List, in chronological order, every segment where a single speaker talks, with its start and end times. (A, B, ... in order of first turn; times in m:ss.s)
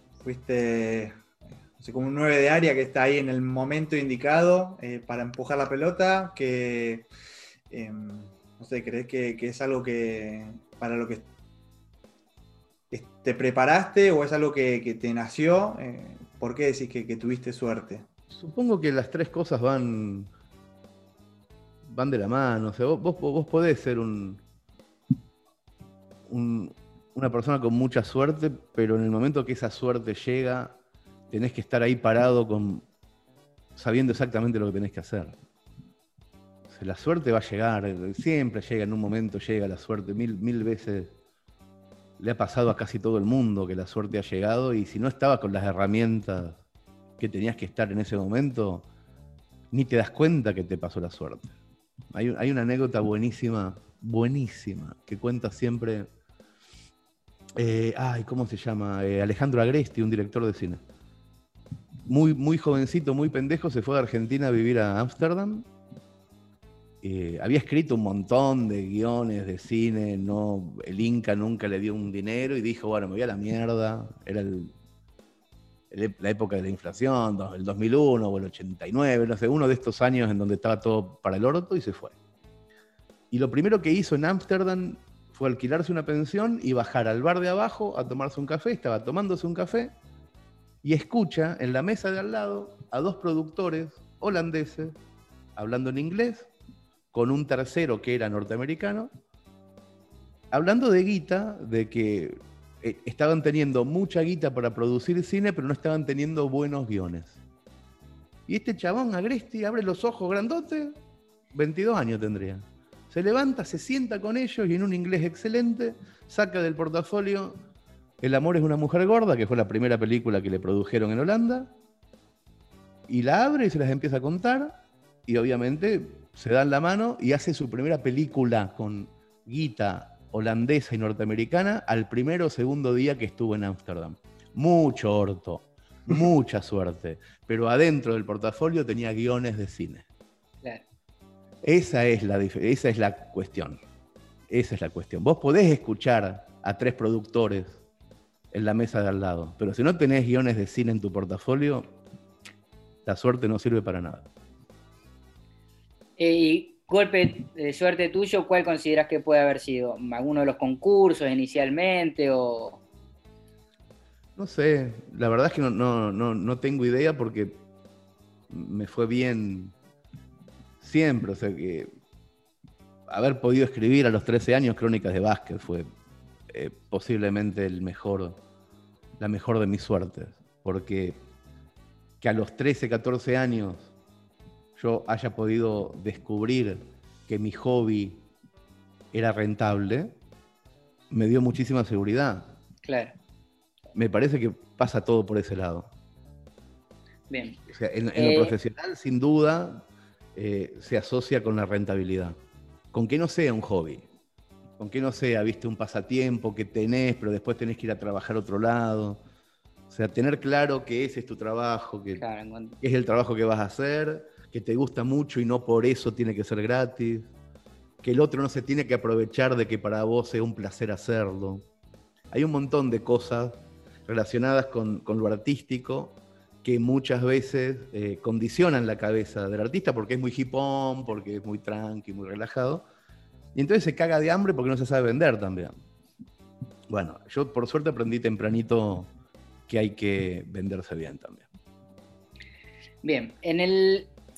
0:00.2-0:01.1 A
0:01.8-0:07.1 A
0:07.7-0:11.2 A
0:12.9-0:18.0 A
0:18.3-0:20.3 B
0:21.8-0:24.4 B
0:26.3-0:30.7 B
0:31.3-0:32.8 B
0:33.8-0:35.4 B
0:36.7-0:41.1 B
0:42.2-0:46.6 B
0:47.2-0:48.8 B
0:49.7-0:51.5 B
0:52.1-0:56.1 B
0:57.6-1:00.8 B
1:02.1-1:05.7 B
1:07.0-1:14.7 B
1:15.9-1:22.1 B
1:23.3-1:29.9 B
1:30.8-1:35.0 B
1:35.6-1:36.5 B
1:37.1-1:39.1 B
1:40.5-1:47.4 B
1:48.5-1:50.9 B
1:51.5-1:57.6 B
1:58.2-2:01.7 B
2:03.1-2:20.0 B
2:21.6-2:23.8 B
2:24.5-2:27.8 B
2:28.5-2:31.9 B
2:33.0-2:34.2 B
2:36.2-2:42.8 C
2:44.4-2:47.6 B
2:48.5-2:49.7 B
2:50.8-2:51.9 B
2:53.1-2:55.9 B
2:56.5-2:58.4 B
2:59.2-3:01.2 B
3:02.2-3:03.9 B
3:04.8-3:08.2 B
3:09.1-3:10.1 B
3:11.1-3:12.5 B
3:12.8-3:13.1 C
3:13.9-3:15.9 B
3:17.3-3:17.6 C
3:17.7-3:19.8 B
3:18.2-3:18.5 C
3:20.3-3:22.4 B
3:22.9-3:24.0 B
3:24.8-3:29.2 B
3:29.9-3:32.2 B
3:32.2-3:32.7 C
3:32.8-3:37.3 B
3:38.0-3:41.6 B
3:42.3-3:52.8 B
3:53.5-3:55.7 B
3:56.9-3:59.1 B
3:59.7-4:01.5 B
4:03.0-4:04.1 C